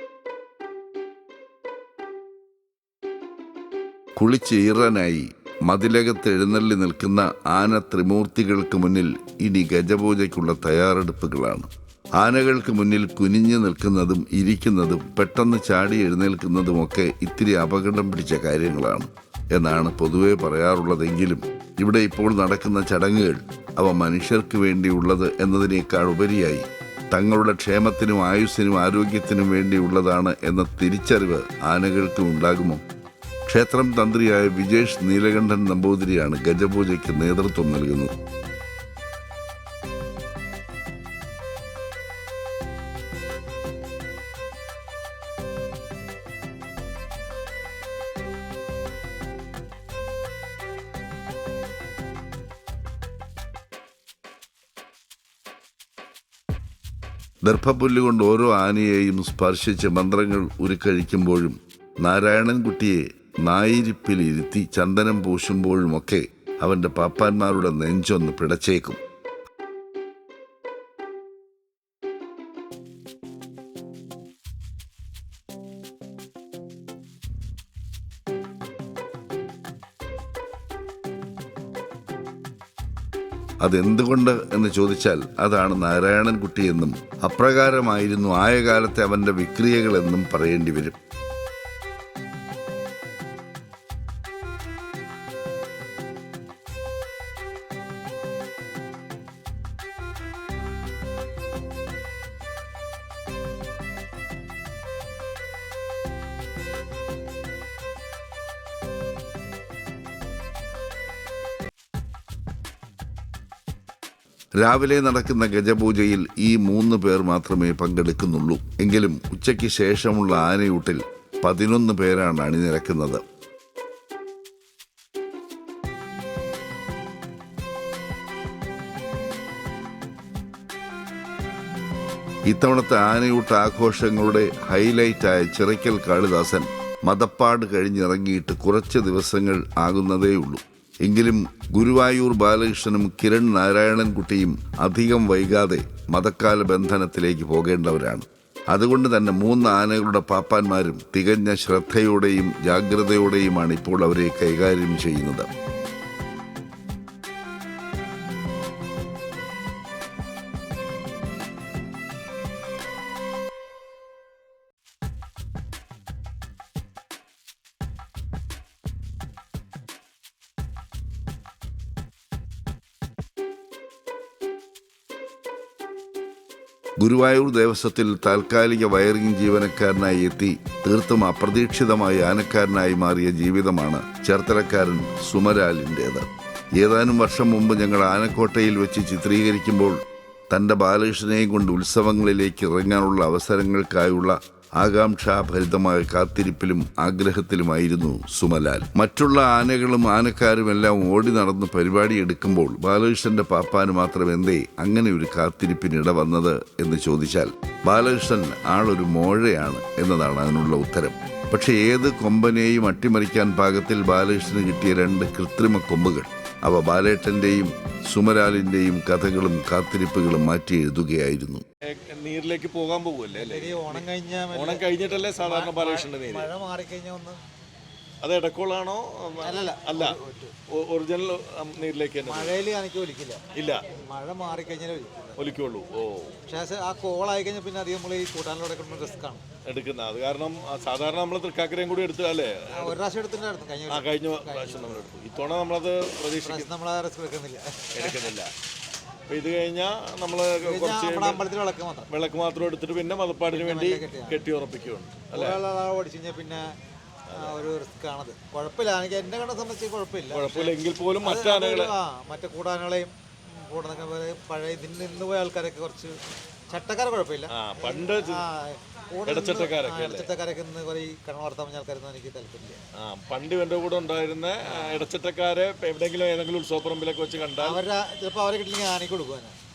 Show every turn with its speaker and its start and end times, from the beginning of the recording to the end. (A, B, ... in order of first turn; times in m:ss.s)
0:04.2-0:32.8 A
0:33.5-0:38.1 A
0:57.4-1:09.0 A
1:23.6-1:31.0 A
1:54.6-2:03.2 A
2:12.5-2:35.5 A
2:57.0-3:10.0 A
3:10.5-3:41.6 A
3:41.9-3:46.5 B
3:43.4-3:47.4 C
3:48.2-3:50.2 B
3:49.4-3:50.5 C
3:50.7-3:52.6 B
3:52.2-3:53.4 C
3:53.5-3:53.8 B
3:53.9-3:55.5 C
3:55.4-3:56.3 B
3:56.5-3:59.4 C
3:59.7-4:03.0 B
4:02.8-4:05.1 C
4:03.9-4:06.7 B
4:06.4-4:08.2 C
4:07.9-4:08.5 B
4:09.3-4:11.4 B
4:10.6-4:12.1 C
4:12.1-4:15.6 B
4:13.5-4:14.4 C
4:15.3-4:16.6 C
4:17.3-4:17.6 B
4:17.3-4:26.1 C
4:20.3-4:21.9 B
4:26.7-4:32.8 C
4:27.5-4:28.4 B
4:29.3-4:30.3 B
4:33.0-4:37.8 B
4:34.7-4:35.0 C
4:37.6-4:39.5 C